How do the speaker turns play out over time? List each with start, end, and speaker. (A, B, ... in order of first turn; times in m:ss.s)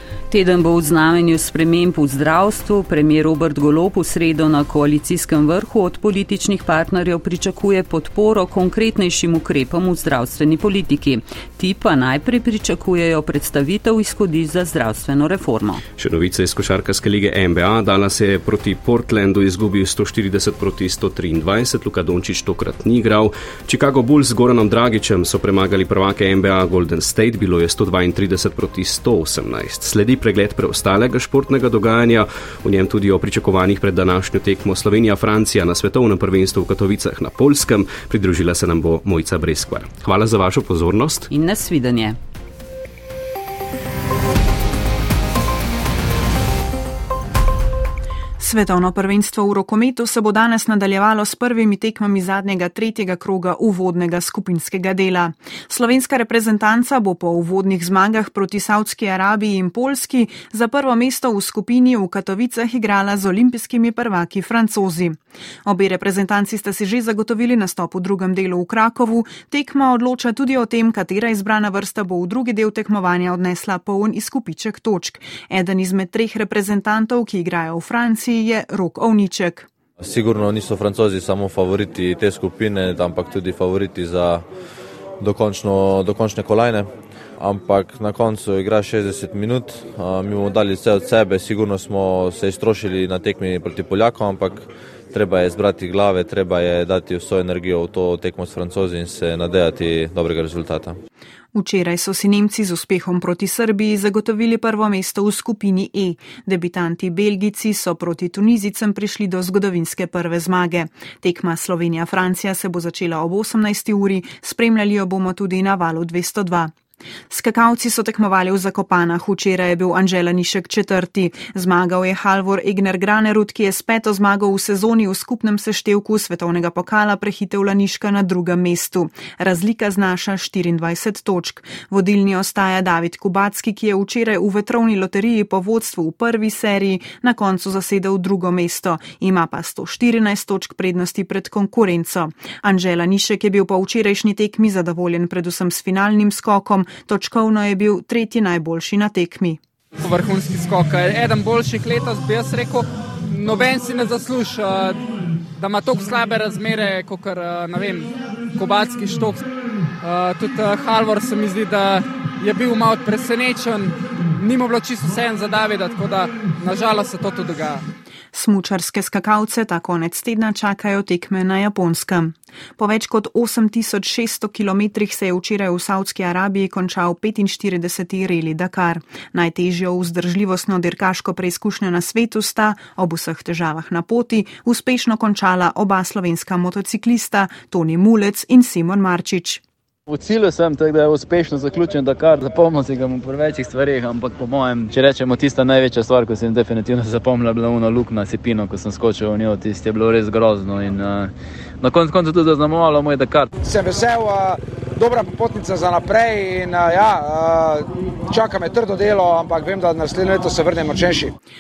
0:00.3-0:15.8 A
0:16.0-0:41.3 B
0:41.3-0:42.2 A
0:48.4-1:19.7 C
1:20.0-1:24.4 D
1:25.2-1:41.0 D
1:41.5-1:56.7 C
1:57.3-2:29.6 C
2:30.0-2:35.0 E
2:35.6-2:39.4 E
2:40.0-2:47.8 E
2:48.3-3:09.6 C
3:10.1-3:23.5 F
3:23.6-3:31.3 G